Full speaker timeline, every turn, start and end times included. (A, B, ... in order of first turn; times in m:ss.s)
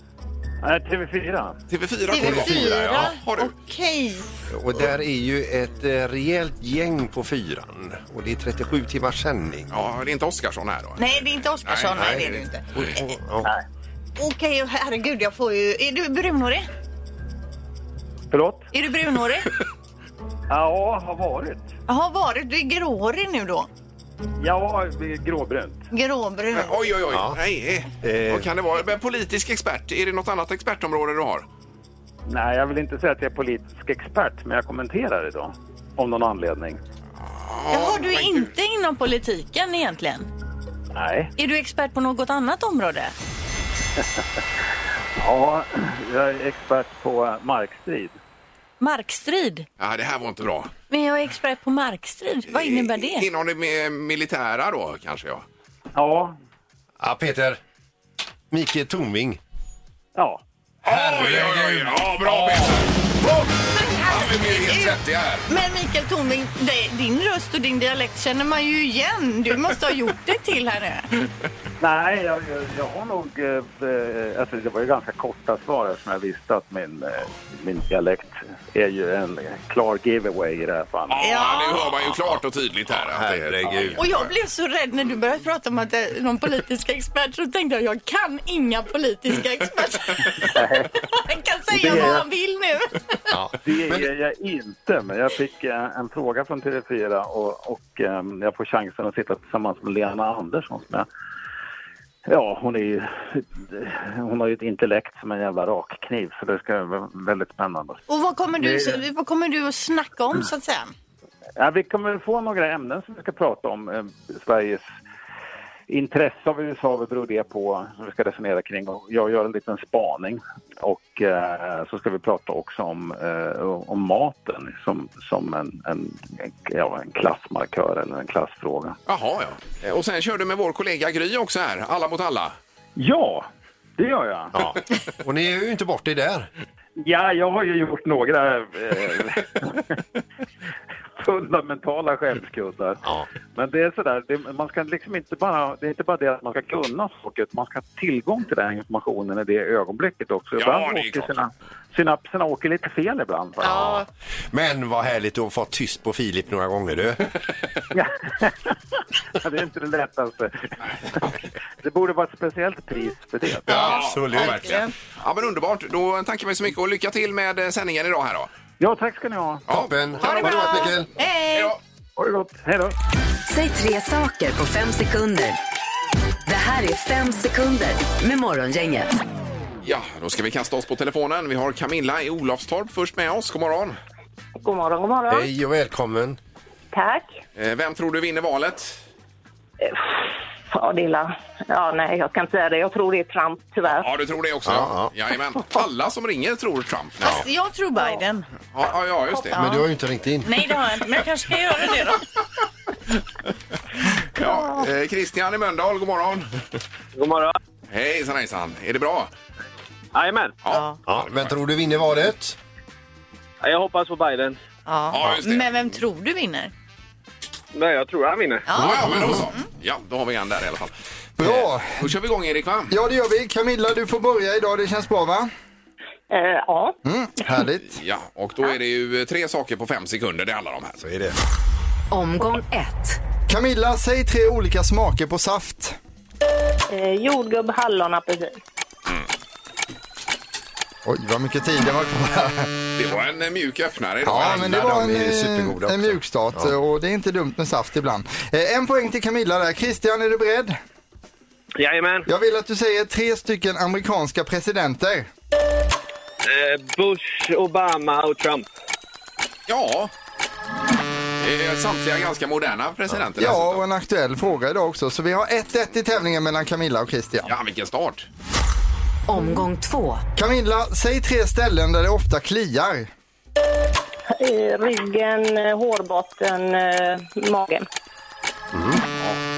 0:00.6-0:01.6 A
0:01.7-0:03.5 B
0:02.1-0:04.3 C
0:02.2-0:02.8 D
0:04.5-0:09.7 D
0:09.7-0:12.3 B
0:11.0-0:13.0 C
0:12.0-0:13.5 D
0:14.2-0:16.7 C
0:18.3-0:18.7 A
0:18.7-0:19.5 C
0:20.5-0:21.7 A
0:21.9-0:23.7 C
0:24.4-0:25.8 A
0:25.9-0:26.9 C
0:26.5-0:31.4 B
0:27.1-0:27.4 D
0:28.0-0:28.5 D
0:32.3-0:36.8 A
0:37.2-0:38.5 B
0:37.7-0:40.3 C
0:40.9-0:41.3 A
0:41.4-0:43.1 C
0:45.2-0:48.2 A
0:48.8-0:49.7 C
0:49.8-0:50.7 B
0:50.9-0:53.3 C
0:52.5-0:55.4 B
0:55.9-0:56.4 A
0:57.0-0:57.6 D
0:58.5-0:59.4 D
1:00.2-1:00.4 A
1:00.8-1:02.8 D
1:00.8-1:05.5 B
1:03.8-1:11.1 C
1:11.8-1:21.3 A
1:21.1-1:24.2 B
1:21.2-1:21.8 C
1:23.0-1:24.0 D
1:24.0-1:30.3 C
1:30.5-1:30.9 A
1:31.0-1:33.0 C
1:31.7-1:32.3 A
1:33.3-1:34.1 D
1:33.6-1:41.1 A
1:42.3-1:48.0 A
1:48.1-1:50.9 C
1:48.6-1:49.0 A
1:51.6-1:54.9 A
1:55.9-2:09.0 A
2:09.1-2:12.6 B
2:13.0-2:13.5 A
2:14.0-2:14.6 A
2:14.5-2:16.5 D
2:17.0-2:20.0 A
2:21.2-2:23.0 A
2:23.5-2:34.0 A
2:30.6-2:31.3 B
2:33.6-2:34.1 C
2:34.5-2:37.3 D
2:37.9-2:38.8 A
2:39.4-2:43.6 A
2:43.7-2:44.8 D
2:43.7-2:44.9 C
2:43.7-2:48.5 B
2:48.8-2:49.6 A
2:49.7-2:50.9 B
2:49.7-2:51.1 D
2:50.2-2:51.8 C
2:51.5-2:51.8 B
2:52.2-2:53.0 A
2:53.5-2:55.6 E
2:56.5-2:59.2 E
2:59.8-3:04.0 B
3:04.6-3:05.5 F
3:05.3-3:06.4 D
3:06.9-3:07.4 F
3:07.6-3:09.0 B
3:09.8-3:14.1 F
3:13.9-3:17.4 B
3:14.7-3:15.1 D
3:17.2-3:18.5 C
3:18.7-3:19.6 B
3:19.4-3:19.8 C
3:19.5-3:20.8 D
3:20.4-3:22.2 C
3:24.3-3:26.6 B
3:24.4-3:24.8 C
3:27.2-3:27.6 G
3:27.9-3:29.3 B
3:30.1-3:30.6 G
3:30.6-3:31.5 B
3:30.7-3:31.0 C
3:31.1-3:32.6 D
3:33.6-3:34.6 G
3:34.9-3:36.7 C
3:35.1-3:35.7 B
3:37.7-3:38.7 G
3:38.7-3:39.6 C
3:38.8-3:42.9 B
3:38.8-3:39.5 D
3:41.4-3:42.1 H
3:42.9-3:45.5 H
3:46.3-3:47.0 F
3:47.0-3:48.0 H
3:47.9-3:51.0 B
3:51.0-3:51.4 D
3:52.1-3:53.2 E
3:53.5-3:56.0 H
3:56.9-3:58.6 F
4:01.0-4:02.7 H
4:03.0-4:04.8 B
4:04.2-4:06.8 D
4:04.2-4:10.8 H
4:11.8-4:12.3 G
4:12.3-4:15.3 H
4:16.4-4:18.7 G
4:19.7-4:20.1 B
4:21.4-4:23.8 B
4:23.4-4:27.5 H
4:27.4-4:28.3 B
4:29.3-4:30.2 E
4:30.4-4:33.1 H
4:34.3-4:37.8 F
4:38.7-4:39.0 D